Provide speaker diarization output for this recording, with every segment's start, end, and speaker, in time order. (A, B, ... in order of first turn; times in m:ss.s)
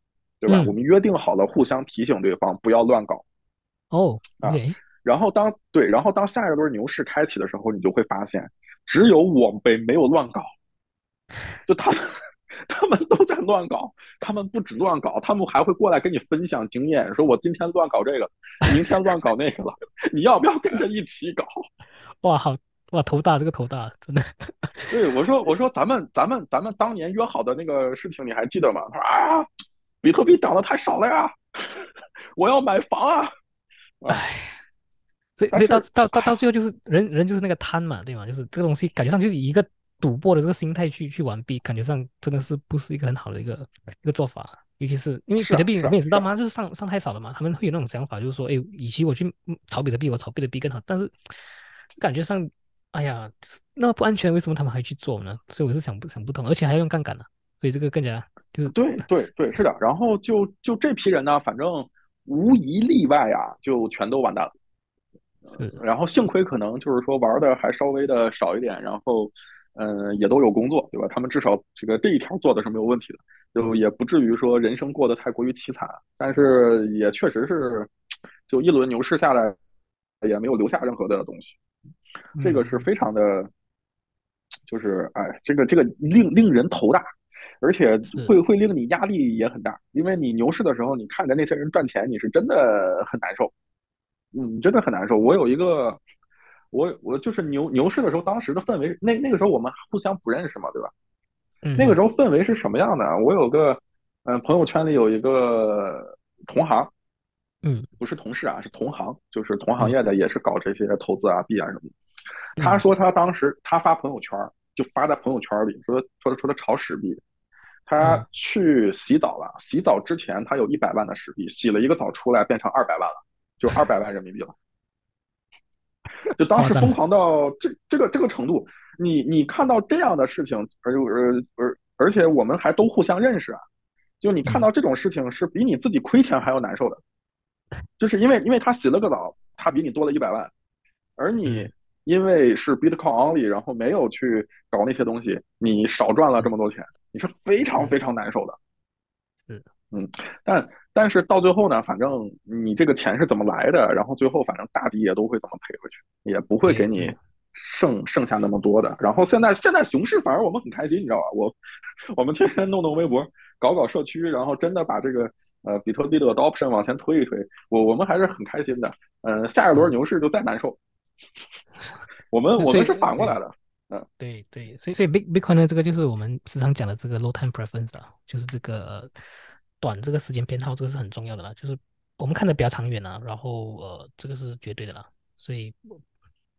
0:00.4-0:03.2 A
0:00.5-0:00.7 B
0:03.9-0:04.8 B
0:04.4-0:10.5 A
0:11.7-0:21.7 A
0:22.2-0:24.9 B
0:24.9-0:29.5 A
0:30.0-0:33.3 A
0:34.1-0:34.6 B
0:35.4-0:51.4 B
0:35.5-0:36.4 A
0:45.4-0:46.3 A
0:52.0-0:59.1 B
0:58.7-1:04.5 A
1:05.5-1:17.9 A
1:05.6-1:05.8 B
1:18.5-1:19.6 A
1:20.2-1:21.6 A
1:22.4-1:22.9 B
1:22.4-1:23.5 A
1:24.7-1:27.0 A
1:27.6-1:33.5 A
1:34.3-1:36.0 A
1:36.7-1:40.9 A
1:41.6-1:42.0 B
1:41.8-1:46.9 A
1:48.0-1:51.9 A
1:52.6-1:57.2 A
1:52.6-1:52.9 B
1:57.9-2:04.6 A
1:58.0-1:58.3 B
2:06.3-2:13.6 A
2:06.6-2:07.0 B
2:14.2-2:17.0 A
2:18.0-2:20.5 A
2:21.2-2:28.6 A
2:21.4-2:21.7 B
2:29.9-2:41.6 A
2:36.6-2:37.2 B
2:42.1-2:50.8 A
2:52.3-2:54.1 A
2:52.6-2:53.4 B
2:54.2-2:59.1 B
2:59.8-3:06.0 B